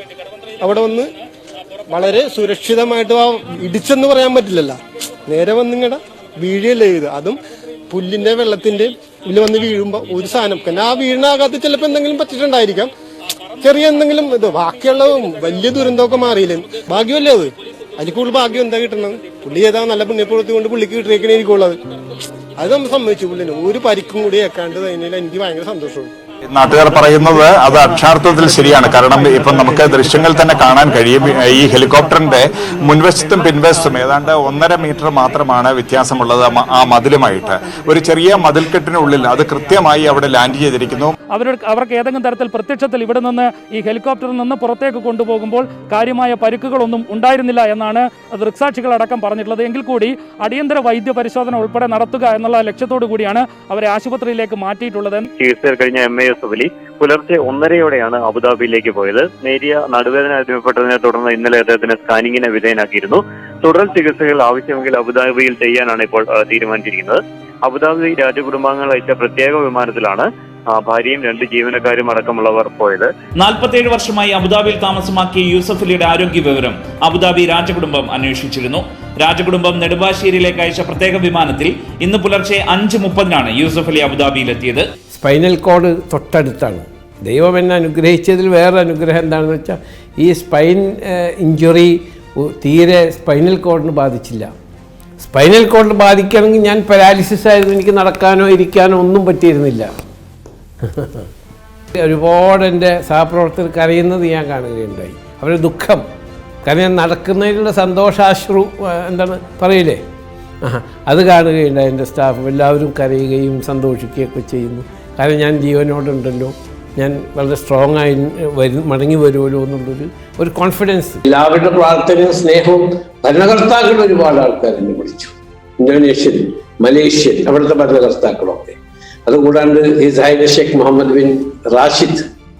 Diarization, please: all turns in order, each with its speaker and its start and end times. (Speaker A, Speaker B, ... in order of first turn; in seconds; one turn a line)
Speaker A: 0.6-1.1
Speaker A: 1.9-4.8
Speaker A: 5.3-7.4
Speaker A: 7.9-12.9
Speaker A: 13.6-21.8
Speaker A: 22.6-26.1
Speaker B: 26.5-41.1
Speaker C: 41.3-55.3
Speaker D: 55.4-73.1
Speaker E: 73.4-84.8
Speaker F: 85.1-94.5
Speaker F: 95.2-99.9
Speaker F: 100.8-101.2
Speaker F: 101.9-106.0
Speaker F: 106.6-110.0
Speaker F: 110.6-132.2